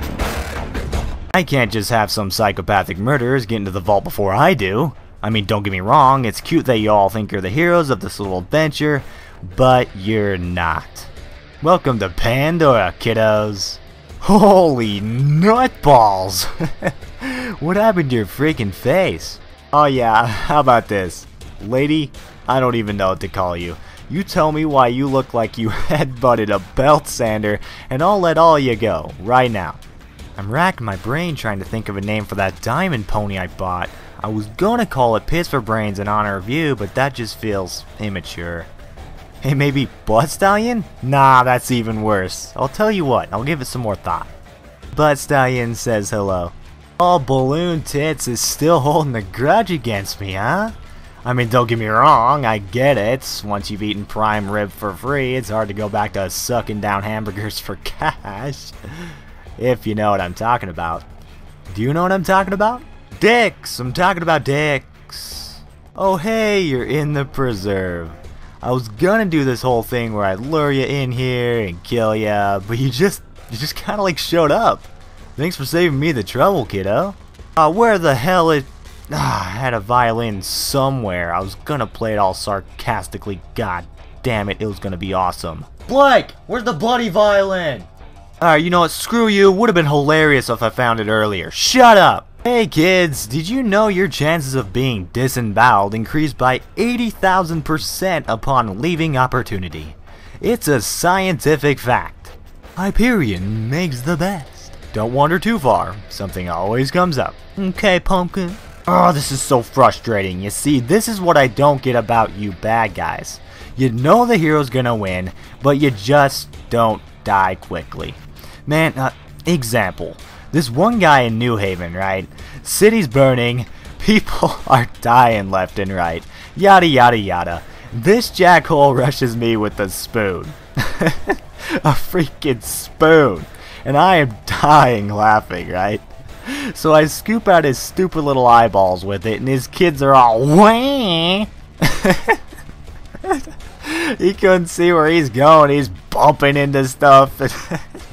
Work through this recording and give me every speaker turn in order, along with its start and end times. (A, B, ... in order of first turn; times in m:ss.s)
0:01.3-0:29.8 A
0:30.4-0:38.7 A
0:39.4-0:44.3 A
0:44.9-1:01.1 A
1:01.7-1:27.9 A
1:28.4-2:22.4 A
2:23.2-2:27.8 A